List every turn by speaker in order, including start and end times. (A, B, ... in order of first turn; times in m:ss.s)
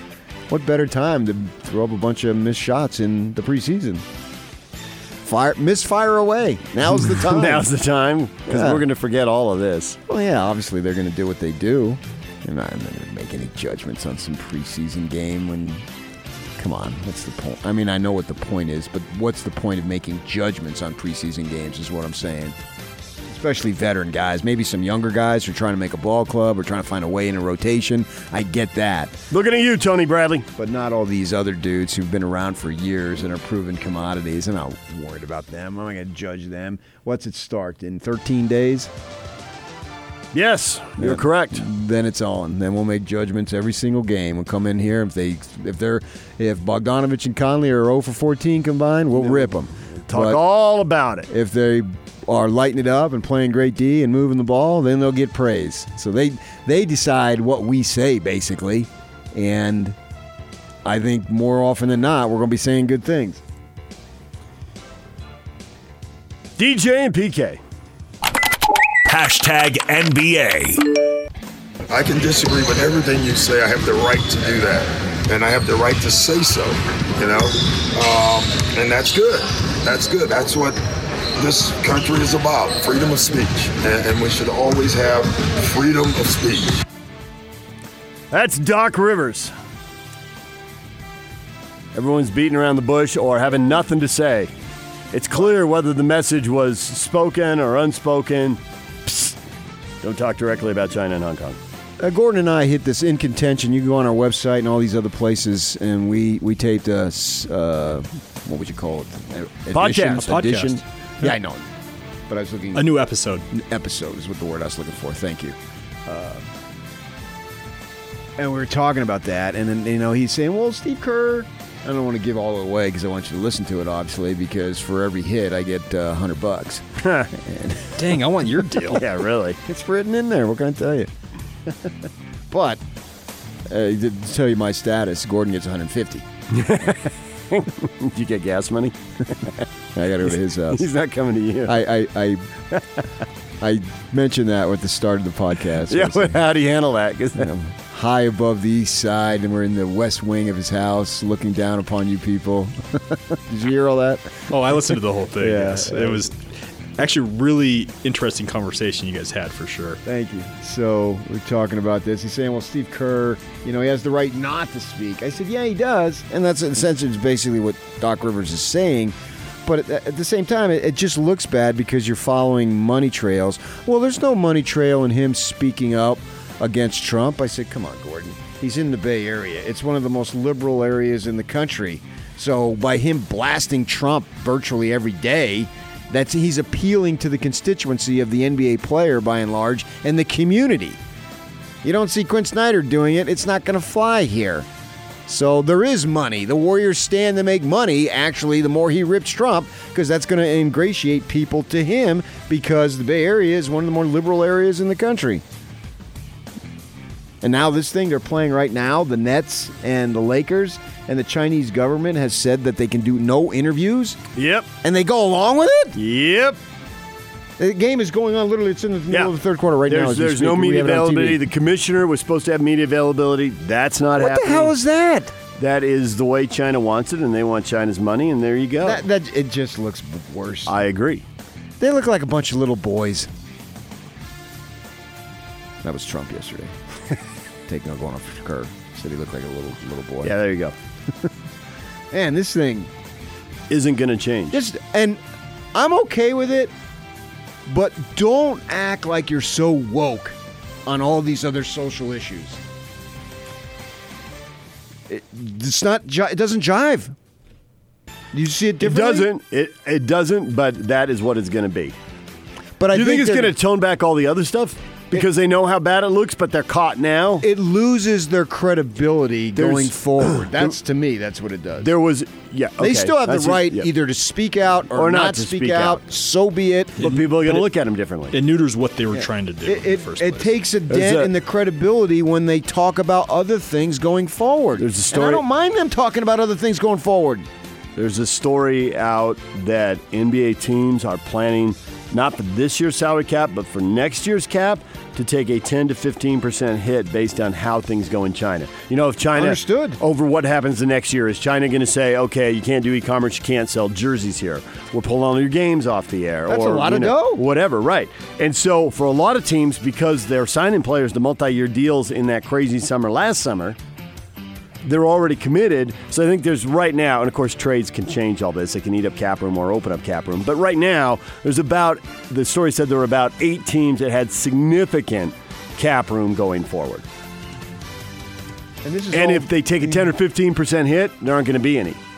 0:00.5-0:04.0 A
0:05.2-0:07.7 A
0:07.1-0:10.0 B
0:08.5-0:08.8 A
0:10.1-0:15.8 A
0:16.6-0:22.6 A
0:23.3-0:29.2 A
0:29.3-0:30.5 B
0:30.6-0:38.9 A
0:40.3-0:41.6 B
0:41.0-0:50.4 A
0:49.2-0:49.5 B
0:50.0-0:51.3 B
0:51.3-1:00.0 A
1:00.8-1:03.4 A
1:06.6-1:07.6 B
1:09.1-1:10.8 C
1:11.9-1:20.8 D
1:21.4-1:26.8 D
1:28.3-1:29.5 B
1:32.0-1:34.5 B
1:35.1-1:39.4 B
1:40.0-1:41.6 B
1:42.0-1:51.6 A
1:49.7-1:50.4 B
1:52.3-1:53.0 A
1:53.5-1:56.5 A
1:58.4-2:08.6 A
2:07.0-2:07.3 B
2:08.2-2:08.8 C
2:08.8-2:09.6 B
2:09.6-2:11.1 A
2:12.5-2:12.8 A
2:13.7-2:16.3 A
2:16.5-2:19.6 B
2:20.0-2:20.9 A
2:20.7-2:21.8 B
2:21.6-2:22.6 A
2:23.6-2:26.4 A
2:25.9-2:27.5 B
2:27.4-2:34.8 A
2:35.4-2:36.3 A
2:37.2-2:40.0 E
2:40.0-3:11.0 A
3:11.8-3:14.7 A
3:15.3-3:25.4 A
3:27.4-3:34.2 A
3:34.4-3:34.7 B
3:34.8-3:36.0 A
3:36.0-3:36.6 B
3:37.6-3:41.5 A
3:39.9-3:44.7 B
3:44.2-3:45.3 A
3:45.6-3:49.0 B
3:48.8-3:50.8 A
3:50.7-3:51.2 B
3:51.8-3:53.3 A
3:55.8-3:56.7 A
3:57.7-4:00.4 A
4:00.2-4:00.8 B
4:02.1-4:02.9 A
4:03.7-4:04.6 B
4:04.5-4:05.2 A
4:05.7-4:06.7 A
4:07.7-4:12.6 A
4:15.1-4:17.2 A
4:18.3-4:19.3 A
4:18.8-4:22.0 B
4:22.8-4:23.5 A
4:22.9-4:27.5 B
4:27.4-4:31.9 A
4:29.6-4:30.7 B
4:31.8-4:33.9 B
4:32.8-4:37.2 A
4:34.9-4:36.0 B
4:37.0-4:38.4 B
4:39.1-4:47.5 A
4:39.6-4:40.4 E
4:40.9-4:41.3 B
4:44.8-4:45.4 B
4:48.0-5:13.8 B
4:59.4-5:00.0 A
5:06.5-5:07.5 A
5:14.8-5:27.1 B
5:28.8-5:30.1 A
5:29.1-5:32.0 B